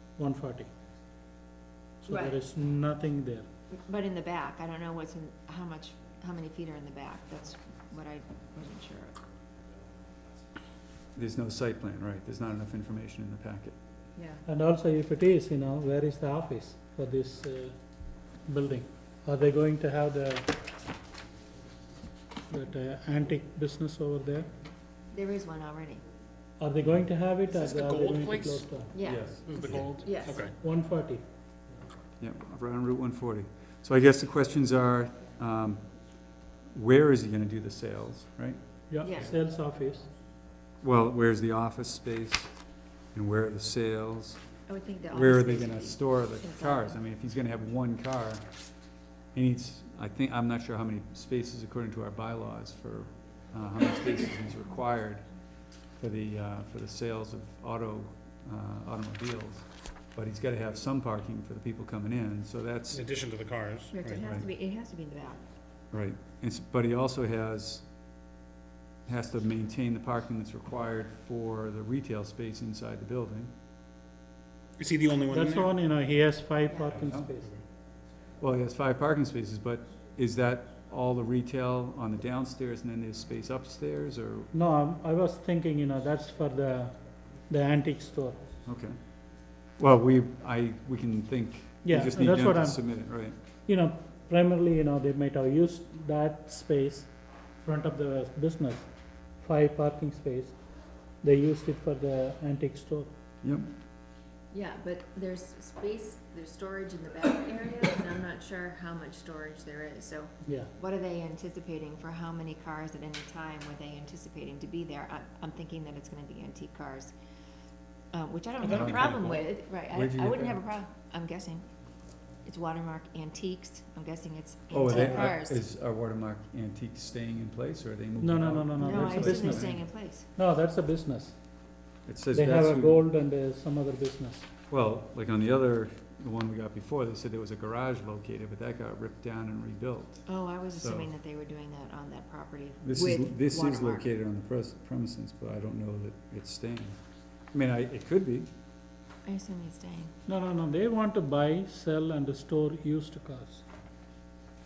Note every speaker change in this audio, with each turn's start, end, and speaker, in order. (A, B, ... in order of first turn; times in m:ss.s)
0:00.2-0:00.7 A
0:02.0-0:03.5 A
0:02.1-0:02.4 B
0:03.7-0:09.2 B
0:11.2-0:13.8 C
0:14.2-0:14.4 B
0:14.4-0:17.8 A
0:18.5-0:20.5 A
0:22.5-0:24.5 A
0:25.1-0:26.0 B
0:26.6-0:28.9 A
0:27.5-0:28.7 D
0:28.9-0:30.4 B
0:29.0-0:29.9 C
0:29.4-0:30.5 D
0:30.4-0:31.2 A
0:32.2-0:35.8 C
0:36.7-0:38.6 C
0:38.9-0:40.1 A
0:39.0-0:39.3 B
0:40.8-0:42.5 C
0:43.1-0:44.4 C
0:44.7-0:47.0 B
0:45.1-0:48.4 C
0:49.3-0:55.2 C
0:56.0-1:03.0 C
1:02.9-1:04.2 D
1:03.9-1:05.4 B
1:04.2-1:04.5 C
1:05.9-1:07.8 C
1:09.0-1:13.5 C
1:14.8-1:15.7 D
1:15.3-1:17.5 A
1:16.7-1:17.1 B
1:17.0-1:17.3 C
1:18.4-1:24.5 C
1:24.5-1:28.4 A
1:28.6-1:28.9 C
1:29.8-1:33.4 C
1:31.8-1:32.8 A
1:33.6-1:37.1 A
1:37.6-1:38.8 A
1:39.4-1:40.5 A
1:41.2-1:43.1 A
1:43.4-1:43.7 C
1:44.5-1:57.1 B
1:50.4-1:50.7 A
1:58.1-2:01.7 B
1:58.6-1:59.4 D
1:58.7-1:59.3 C
1:59.9-2:00.6 C
2:02.4-2:05.6 B
2:04.7-2:09.8 C
2:08.2-2:09.8 A
2:08.8-2:10.3 B
2:10.3-2:11.3 A
2:12.0-2:13.0 C
2:12.3-2:14.5 A
2:14.7-2:21.1 C
2:20.2-2:24.1 B
2:22.8-2:27.0 C
2:27.5-2:28.5 C
2:29.2-2:30.1 B
2:30.3-2:33.6 A